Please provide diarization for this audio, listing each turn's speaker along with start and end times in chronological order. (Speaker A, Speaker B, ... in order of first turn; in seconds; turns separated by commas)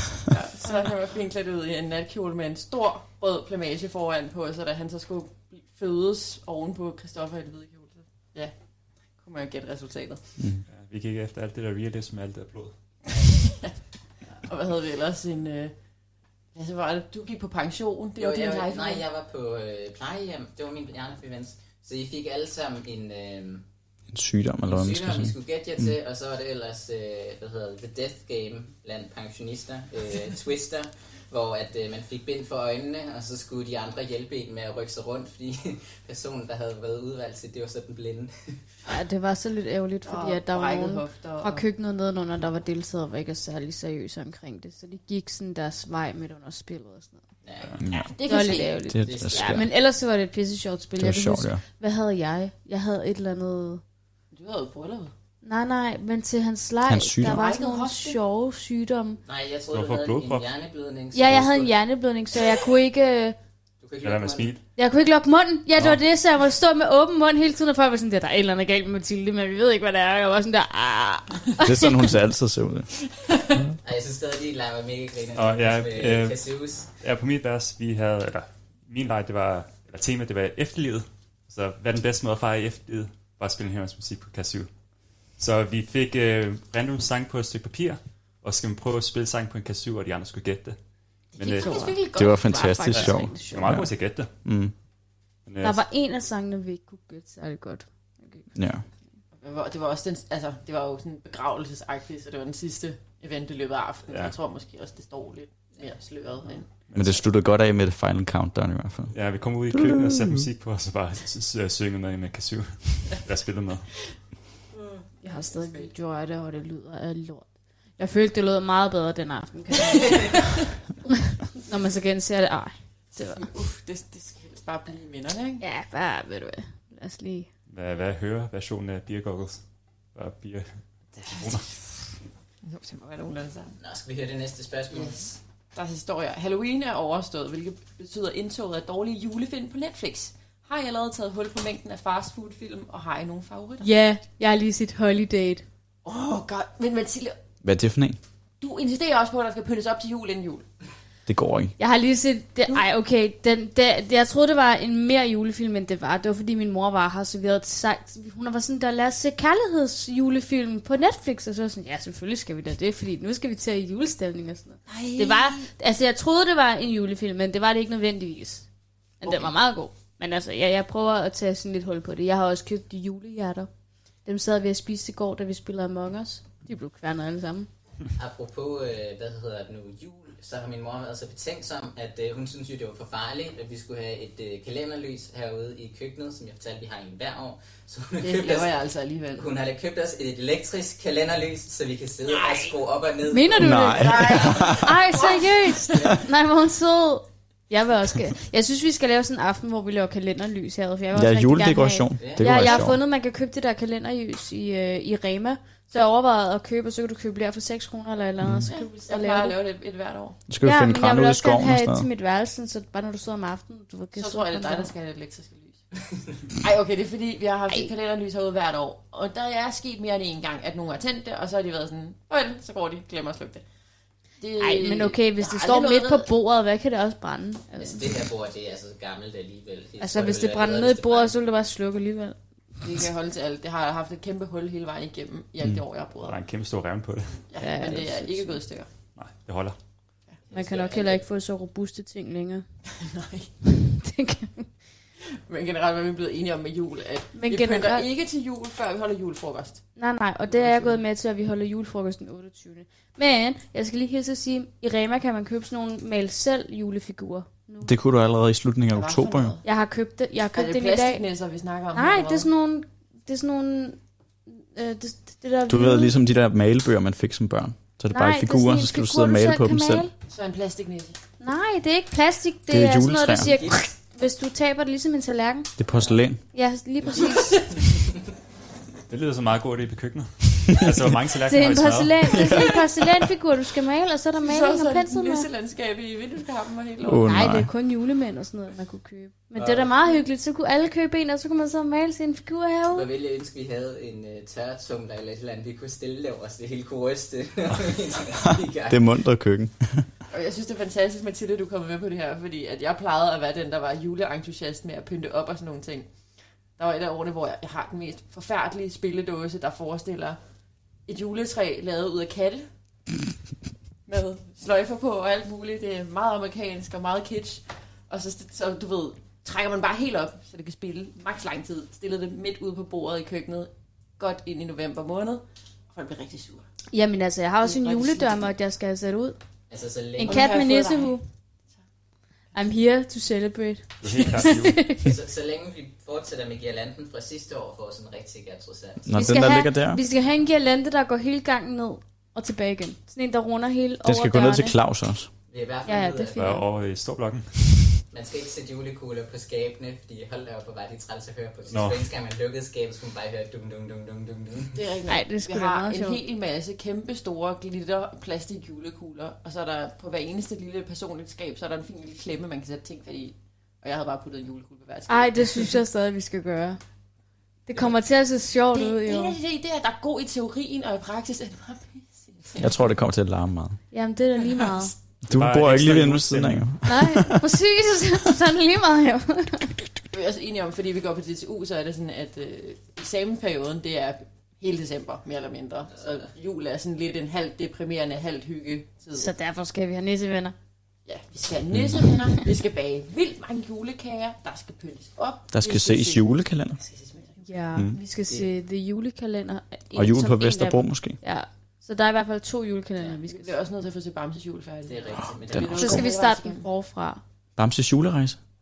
Speaker A: 0.3-8.5, Speaker A: 9.2-10.4, Speaker B: 10.7-12.7, Speaker A: 14.4-15.7, Speaker A: 16.6-19.1, Speaker C: 18.2-23.6, Speaker D: 24.1-25.9, Speaker C: 24.7-38.6, Speaker E: 38.9-47.2, Speaker A: 40.0-41.6, Speaker C: 47.4-47.8, Speaker D: 47.8-48.1, Speaker A: 48.0-48.9, Speaker E: 48.3-53.8, Speaker D: 48.9-49.7, Speaker C: 49.0-49.6, Speaker D: 51.0-51.6, Speaker A: 54.3-55.1, Speaker E: 55.4-59.2, Speaker D: 56.9-57.4, Speaker A: 57.2-58.2, Speaker C: 59.3-61.7, Speaker B: 59.7-60.5, Speaker E: 61.1-63.4, Speaker C: 63.8-64.5, Speaker B: 64.0-64.6, Speaker E: 64.8-72.0, Speaker D: 71.6-72.9, Speaker A: 73.3-73.6, Speaker C: 73.8-76.9, Speaker B: 75.4-84.7, Speaker B: 85.4-90.8, Speaker B: 91.4-91.8, Speaker A: 91.4-92.7, Speaker E: 91.6-93.8, Speaker D: 92.1-94.7, Speaker B: 93.0-94.3, Speaker B: 95.5-95.8, Speaker E: 95.6-98.5, Speaker D: 98.5-98.8, Speaker A: 99.3-106.7, Speaker B: 104.1-104.3, Speaker B: 106.9-107.2, Speaker D: 106.9-109.1, Speaker B: 109.1-113.9, Speaker D: 109.7-110.5, Speaker A: 114.8-115.9, Speaker E: 115.2-120.4, Speaker E: 121.6-123.5, Speaker A: 123.2-125.6, Speaker E: 125.6-127.5, Speaker B: 127.7-129.6, Speaker B: 130.1-131.8, Speaker A: 132.6-133.7, Speaker C: 133.8-135.3, Speaker A: 134.9-143.9, Speaker E: 143.8-145.7, Speaker A: 146.1-147.4, Speaker D: 147.6-148.2, Speaker A: 148.6-150.7, Speaker D: 151.3-151.7, Speaker E: 151.8-168.7, Speaker A: 164.9-165.7, Speaker E: 169.2-173.7, Speaker E: 174.3-177.7, Speaker C: 178.2-188.7, Speaker A: 188.2-189.5, Speaker C: 189.3-193.8, Speaker A: 192.3-192.7, Speaker E: 193.3-209.6, Speaker D: 193.6-194.9, Speaker A: 194.0-196.2, Speaker D: 201.1-203.0, Speaker C: 202.2-202.6, Speaker D: 208.4-208.7, Speaker A: 208.7-210.4, Speaker D: 210.5-212.1, Speaker E: 210.6-214.9, Speaker A: 214.2-215.8, Speaker A: 216.6-223.7, Speaker A: 224.4-226.3, Speaker E: 224.6-228.0, Speaker C: 227.8-231.3, Speaker E: 230.0-232.4, Speaker A: 232.8-236.4, Speaker B: 236.2-237.4, Speaker A: 237.5-238.9, Speaker E: 237.6-238.6, Speaker B: 239.2-239.8, Speaker C: 240.5-241.2, Speaker E: 240.5-242.7, Speaker A: 242.9-243.5, Speaker E: 243.7-244.7, Speaker A: 245.5-249.8, Speaker E: 247.3-248.1, Speaker E: 250.0-257.9, Speaker A: 250.5-251.0, Speaker D: 257.8-259.6, Speaker A: 258.9-259.6, Speaker E: 259.6-261.2, Speaker A: 260.5-262.5, Speaker E: 261.9-266.1, Speaker D: 265.7-270.1, Speaker E: 268.1-270.1, Speaker A: 270.3-271.2, Speaker E: 271.4-275.7, Speaker D: 272.7-273.6, Speaker C: 273.4-273.8, Speaker D: 275.8-276.4, Speaker C: 275.9-276.2, Speaker E: 276.5-277.6, Speaker A: 277.1-277.6, Speaker B: 279.1-282.4, Speaker E: 281.5-285.5, Speaker D: 282.3-283.1, Speaker A: 284.4-287.3, Speaker D: 287.1-287.7, Speaker E: 287.2-293.1, Speaker C: 292.9-299.0, Speaker D: 298.9-300.1, Speaker A: 300.3-306.1, Speaker A: 306.8-310.4, Speaker A: 311.1-312.7, Speaker A: 314.1-326.7, Speaker E: 326.9-329.4, Speaker A: 327.6-328.5, Speaker C: 329.7-330.5, Speaker A: 330.2-331.2, Speaker E: 330.2-331.2, Speaker E: 332.5-335.1, Speaker B: 334.0-334.8, Speaker C: 335.0-339.0, Speaker D: 339.0-340.0, Speaker E: 339.1-344.8, Speaker D: 344.0-345.3, Speaker C: 345.5-346.5, Speaker E: 345.9-346.6, Speaker B: 346.4-347.6, Speaker C: 348.1-354.8, Speaker B: 351.7-352.0, Speaker A: 354.8-365.8, Speaker E: 355.1-356.2, Speaker E: 365.1-366.8, Speaker E: 367.7-369.4, Speaker A: 368.7-372.9, Speaker D: 372.6-373.8, Speaker E: 373.9-374.9, Speaker D: 375.3-377.4, Speaker B: 375.3-376.7, Speaker E: 376.8-379.8, Speaker A: 380.1-389.3, Speaker E: 389.1-390.6, Speaker A: 391.1-398.0, Speaker D: 395.5-396.8, Speaker E: 397.4-403.6, Speaker D: 399.9-401.2, Speaker A: 403.2-406.7, Speaker C: 404.9-406.1, Speaker E: 405.8-407.2, Speaker D: 407.6-408.4